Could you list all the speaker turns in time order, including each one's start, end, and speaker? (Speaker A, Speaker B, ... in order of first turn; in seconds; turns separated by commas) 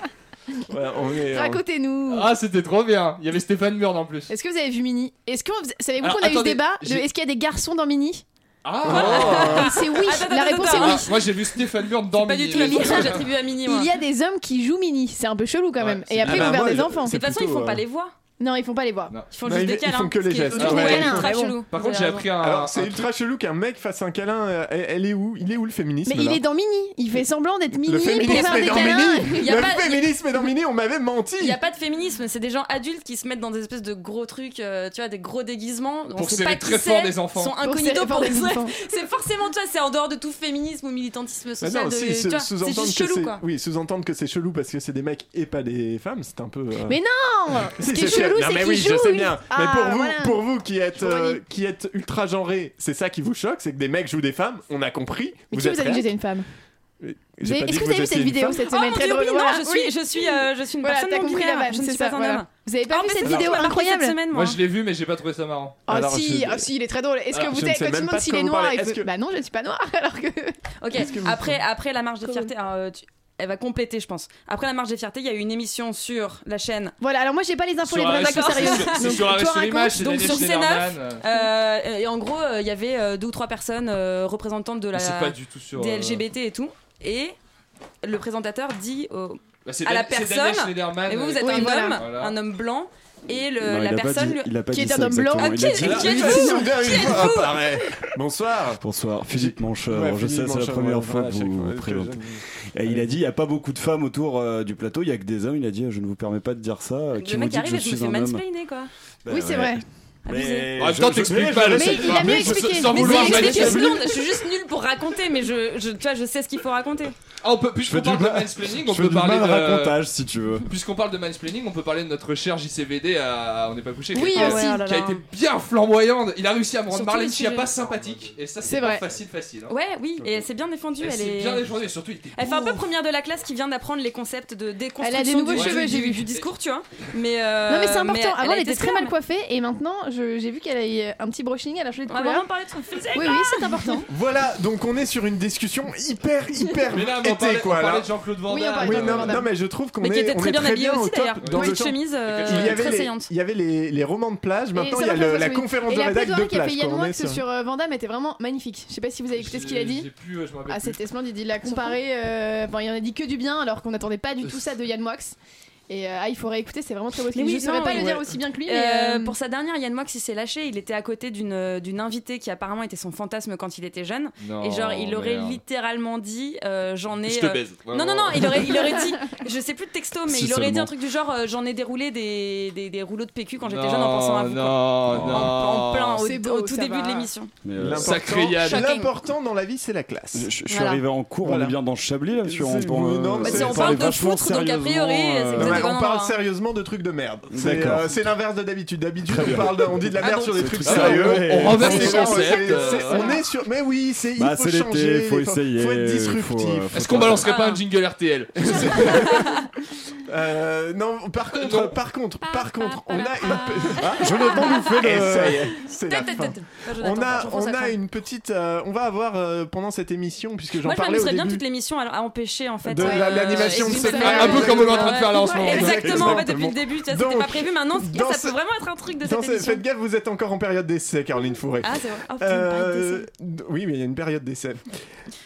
Speaker A: 0.7-1.6, Speaker B: 1.3-2.3, Speaker C: 2.1-4.3, Speaker B: 4.3-8.2, Speaker C: 6.0-7.0, Speaker C: 8.6-10.1, Speaker A: 8.8-9.8, Speaker D: 8.9-11.1, Speaker B: 8.9-11.4, Speaker C: 10.6-13.3, Speaker D: 12.2-13.9, Speaker B: 12.5-17.2, Speaker C: 15.8-16.3, Speaker A: 15.9-17.8, Speaker D: 16.3-18.1, Speaker B: 18.4-19.2, Speaker D: 19.3-22.3, Speaker A: 19.4-21.3, Speaker B: 20.6-21.6, Speaker C: 20.6-23.1, Speaker A: 22.4-26.4, Speaker B: 26.1-29.7, Speaker A: 27.8-31.6, Speaker D: 28.2-30.1, Speaker D: 31.4-43.4, Speaker C: 36.2-37.5, Speaker B: 37.6-38.8, Speaker A: 41.6-47.0, Speaker B: 46.9-50.4, Speaker A: 47.8-56.1, Speaker B: 51.0-51.4, Speaker B: 55.5-56.5, Speaker A: 57.0-58.7, Speaker B: 57.4-64.2, Speaker D: 58.7-64.6, Speaker A: 63.2-63.7, Speaker C: 64.3-65.8, Speaker A: 65.9-66.7, Speaker B: 65.9-71.1, Speaker A: 67.3-69.1, Speaker D: 70.8-77.0, Speaker A: 70.9-71.6, Speaker B: 72.2-72.5, Speaker B: 77.0-80.4, Speaker C: 77.8-81.2, Speaker D: 78.1-87.4, Speaker C: 84.9-86.2, Speaker D: 88.0-94.5, Speaker C: 89.7-92.3, Speaker B: 91.3-92.1, Speaker E: 93.6-96.3, Speaker B: 94.7-96.7, Speaker D: 95.4-97.8, Speaker A: 95.8-103.2, Speaker E: 98.8-108.4, Speaker D: 107.2-108.9, Speaker E: 109.2-112.6, Speaker B: 109.3-109.8, Speaker D: 110.3-110.7, Speaker C: 110.8-114.0, Speaker A: 111.3-111.6, Speaker B: 111.7-114.3, Speaker D: 112.9-117.2, Speaker C: 117.4-120.0, Speaker E: 117.8-120.7, Speaker C: 120.7-129.7, Speaker B: 124.2-124.9, Speaker D: 124.2-125.2, Speaker D: 126.9-127.7, Speaker B: 128.6-129.1, Speaker D: 129.7-131.7, Speaker C: 131.0-132.8, Speaker D: 132.4-139.2, Speaker B: 135.0-136.3, Speaker C: 135.5-136.4, Speaker B: 137.7-142.5, Speaker D: 142.1-144.1, Speaker B: 143.1-144.1, Speaker A: 144.1-148.1, Speaker C: 146.9-149.4, Speaker B: 148.5-149.5, Speaker A: 148.8-157.4, Speaker D: 150.0-153.3, Speaker C: 151.4-152.9, Speaker B: 154.7-160.1, Speaker C: 159.3-161.0, Speaker B: 160.7-165.4, Speaker D: 161.7-161.9, Speaker B: 165.9-169.4, Speaker D: 167.3-187.5, Speaker C: 174.4-175.6, Speaker C: 177.2-178.9, Speaker E: 180.3-180.9, Speaker C: 183.7-186.2, Speaker E: 185.1-185.6, Speaker B: 186.2-187.3, Speaker E: 187.6-188.2, Speaker A: 187.8-190.5, Speaker C: 188.0-188.9, Speaker D: 188.5-189.1, Speaker E: 190.3-195.9, Speaker D: 190.7-191.0, Speaker A: 191.4-191.8, Speaker A: 192.4-194.2, Speaker D: 193.4-196.4, Speaker A: 195.5-207.5, Speaker E: 197.5-198.2, Speaker E: 199.3-202.9, Speaker C: 200.8-203.4, Speaker D: 202.1-202.4, Speaker D: 202.9-203.4, Speaker E: 204.4-207.5, Speaker C: 206.9-209.3, Speaker D: 207.4-207.8, Speaker A: 208.6-209.7, Speaker D: 208.7-209.7, Speaker A: 210.3-221.6, Speaker C: 211.5-212.0, Speaker D: 212.4-215.1, Speaker E: 214.2-215.7, Speaker D: 215.9-218.0, Speaker D: 220.8-229.8, Speaker A: 222.8-228.6, Speaker B: 223.0-225.9, Speaker C: 223.8-226.5, Speaker A: 229.2-234.9, Speaker D: 231.8-233.3